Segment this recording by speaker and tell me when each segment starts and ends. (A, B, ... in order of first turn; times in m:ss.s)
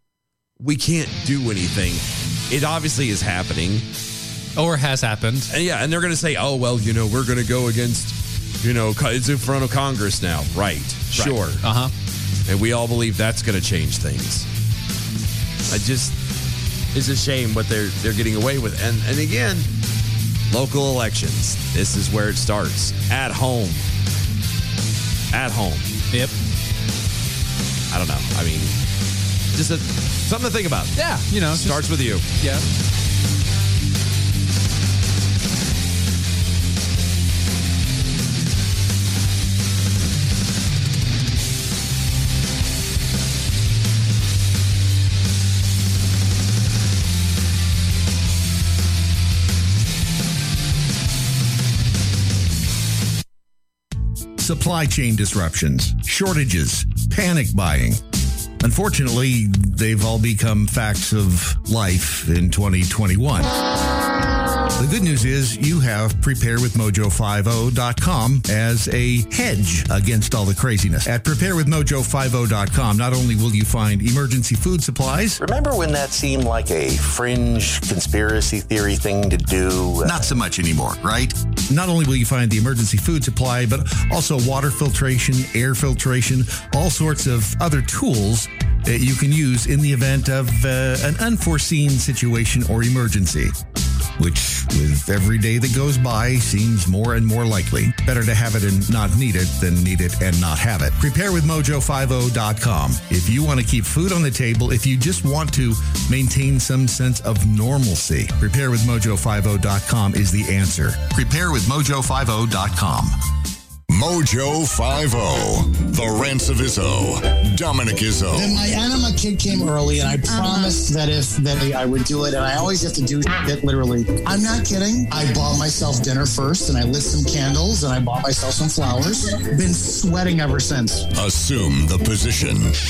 0:00.6-0:03.9 A
0:04.6-0:05.5 B
0:05.5-0:11.6 A
0:11.1-0:11.9 B
0:12.5-0:14.5 A
0:15.7-0:16.2 A
0:16.9-0:19.7 A
0:20.5-0:23.8 A
0:25.3-0:25.9 A
0:27.9-0:28.8 A
0:29.5-0:30.9 A
0:31.0-0:32.7 B
0:31.5-0:32.2 A
0:54.4-0:58.0 C
0:58.6-1:03.5 C
1:04.8-1:15.4 C
1:15.4-1:20.3 D
1:20.0-1:33.5 C
1:34.2-1:53.1 C
1:53.9-1:58.6 E
1:58.4-2:11.1 F
2:11.2-2:12.7 E